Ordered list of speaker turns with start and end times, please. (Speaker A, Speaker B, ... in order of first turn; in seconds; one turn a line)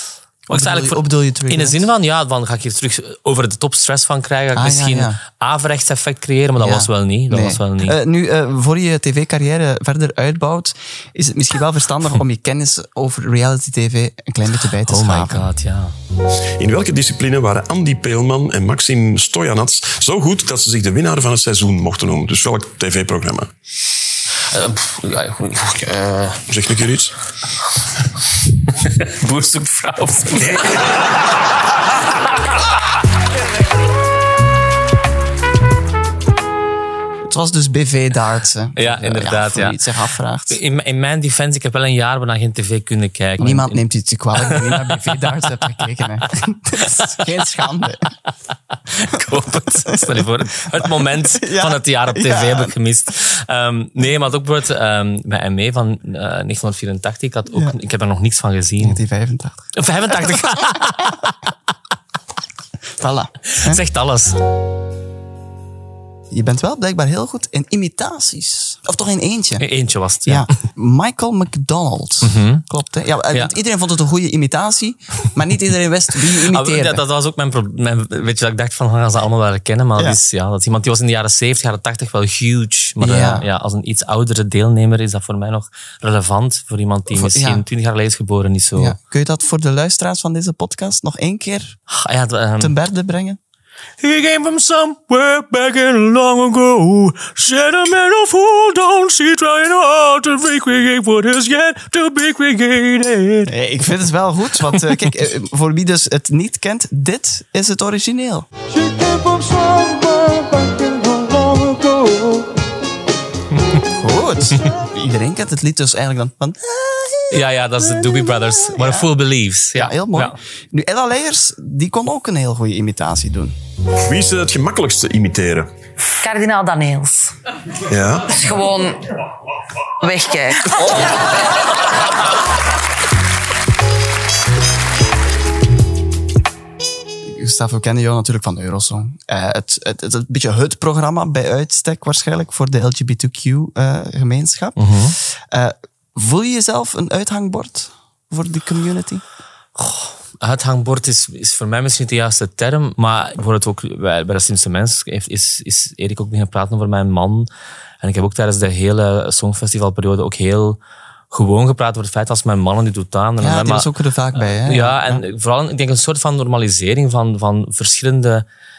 Speaker A: 0.5-1.9
Speaker B: 0.5-8.0
Speaker A: 4.5-5.2
Speaker A: 6.6-15.4
Speaker B: 14.8-15.9
Speaker C: 16.6-23.5
Speaker B: 24.5-26.3
Speaker C: 26.5-27.1
Speaker B: 29.2-30.6
Speaker A: 37.3-40.6
Speaker B: 38.8-39.8
Speaker B: 40.5-43.8
Speaker A: 43.4-48.1
Speaker B: 44.4-45.1
Speaker B: 48.9-59.0
Speaker A: 49.1-52.7
Speaker A: 57.5-57.8
Speaker A: 58.8-60.9
Speaker B: 59.8-61.3
Speaker A: 63.0-63.8
Speaker B: 63.5-64.4
Speaker A: 66.3-69.7
Speaker B: 69.6-70.5
Speaker A: 70.2-77.0
Speaker B: 72.2-72.6
Speaker B: 76.4-89.0
Speaker A: 83.0-83.5
Speaker A: 87.1-87.6
Speaker A: 88.7-91.8
Speaker B: 91.9-92.7
Speaker A: 92.6-93.4
Speaker B: 94.0-103.5
Speaker A: 103.5-112.5
Speaker B: 104.6-105.1
Speaker A: 113.8-119.1
Speaker B: 117.3-120.3
Speaker A: 119.7-123.5
Speaker C: 124.0-125.7
Speaker D: 126.2-127.3
Speaker C: 127.9-128.4
Speaker D: 128.3-129.0
Speaker D: 130.0-130.7
Speaker A: 137.3-149.2
Speaker B: 144.8-145.2
Speaker B: 149.7-157.5
Speaker B: 158.0-160.8
Speaker B: 161.3-168.4
Speaker A: 163.4-165.2